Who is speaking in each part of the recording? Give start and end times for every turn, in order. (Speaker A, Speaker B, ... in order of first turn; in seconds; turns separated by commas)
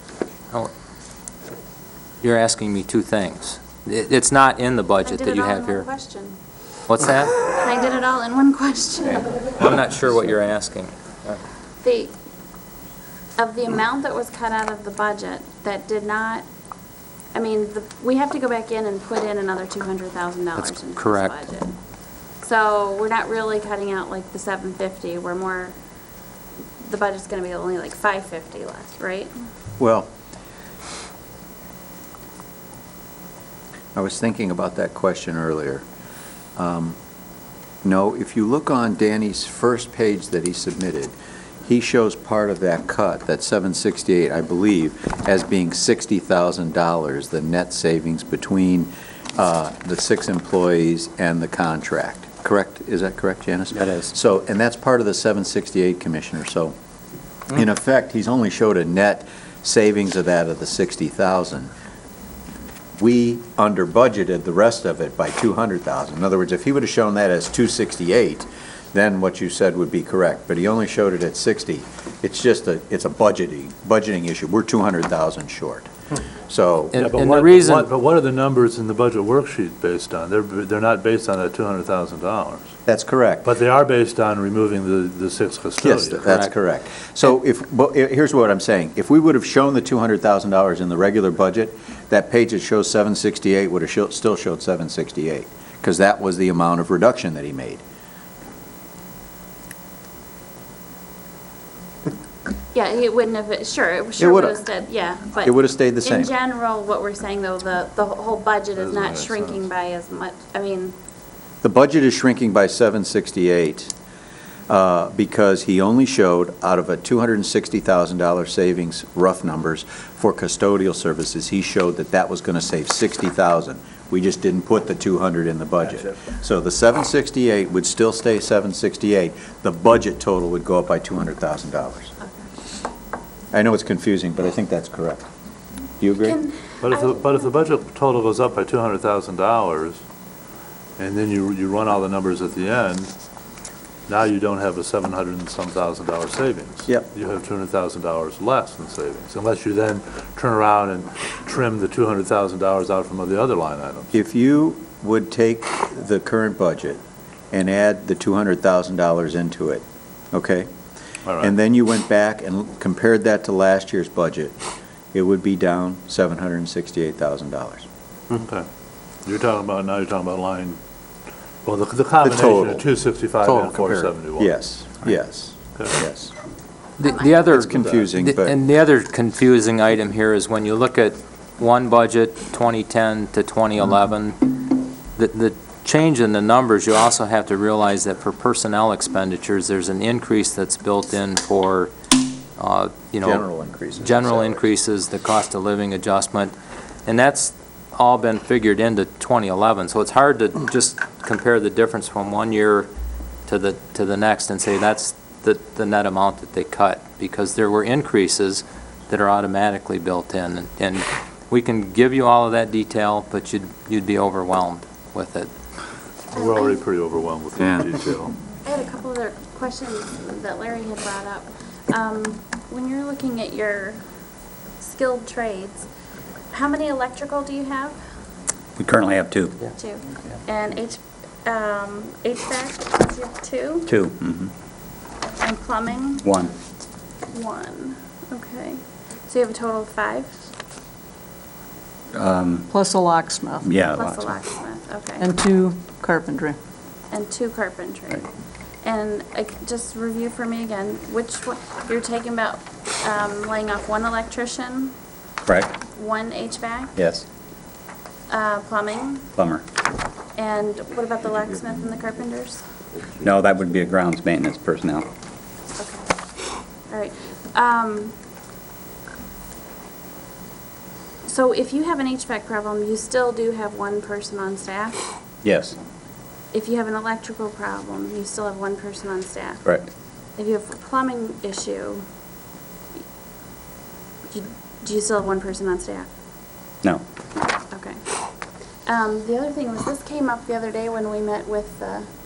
Speaker A: 2.2-5.9, Speaker B: 5.1-6.4, Speaker A: 6.9-7.3, Speaker B: 7.4-9.6, Speaker A: 9.6-11.4, Speaker B: 11.8-12.1, Speaker B: 13.4-16.5, Speaker B: 17.3-21.8, Speaker A: 20.6-21.4, Speaker B: 22.4-25.8, Speaker B: 26.8-29.3, Speaker C: 29.8-30.1, Speaker C: 34.0-35.8, Speaker C: 36.6-37.0, Speaker C: 37.8-56.7, Speaker D: 53.8-54.1, Speaker C: 57.5-61.7, Speaker C: 63.0-77.0, Speaker A: 76.9-77.9, Speaker E: 76.9-82.7, Speaker C: 82.9-83.5, Speaker E: 83.4-86.2, Speaker C: 85.8-97.8, Speaker A: 86.3-86.5, Speaker B: 102.7-111.0, Speaker C: 104.2-104.6, Speaker C: 105.4-106.3, Speaker E: 108.8-109.7, Speaker C: 111.6-113.9, Speaker C: 114.7-132.1, Speaker B: 132.2-132.5, Speaker C: 133.5-135.3, Speaker C: 136.0-136.4, Speaker B: 136.2-137.5, Speaker E: 136.8-140.0, Speaker E: 141.0-143.1, Speaker E: 144.1-154.2, Speaker C: 154.1-157.0, Speaker C: 157.5-160.7, Speaker E: 161.2-161.6, Speaker C: 161.4-164.6, Speaker C: 165.1-167.9, Speaker E: 168.3-168.7, Speaker E: 169.2-170.8, Speaker E: 171.6-174.6, Speaker C: 172.2-172.8, Speaker C: 173.4-176.3, Speaker E: 175.8-176.0, Speaker A: 177.0-193.5, Speaker B: 177.0-177.4, Speaker C: 177.4-178.6, Speaker C: 193.2-194.7, Speaker A: 194.0-196.5, Speaker A: 197.1-202.9, Speaker A: 203.5-215.5, Speaker B: 216.3-216.8, Speaker E: 216.4-218.3, Speaker C: 217.6-218.0, Speaker B: 218.7-224.0, Speaker B: 224.8-225.9, Speaker B: 226.5-228.0, Speaker D: 228.8-229.6, Speaker B: 229.8-233.9, Speaker D: 233.9-234.5, Speaker B: 235.2-236.3, Speaker D: 236.2-236.5, Speaker B: 237.3-240.4, Speaker D: 242.2-242.7, Speaker F: 242.7-243.7, Speaker D: 243.6-244.3, Speaker B: 243.9-245.3, Speaker F: 245.2-246.6, Speaker B: 247.1-248.3, Speaker B: 248.8-254.9, Speaker B: 255.9-256.9, Speaker D: 257.0-257.2, Speaker B: 258.3-259.3, Speaker D: 259.4-259.6, Speaker B: 260.4-262.6, Speaker D: 263.2-265.1, Speaker B: 265.8-266.1, Speaker B: 266.9-268.1, Speaker B: 271.2-275.0, Speaker D: 275.4-275.8, Speaker B: 276.5-279.6, Speaker B: 280.4-282.1, Speaker B: 284.3-286.1, Speaker B: 287.4-288.2, Speaker B: 288.9-292.1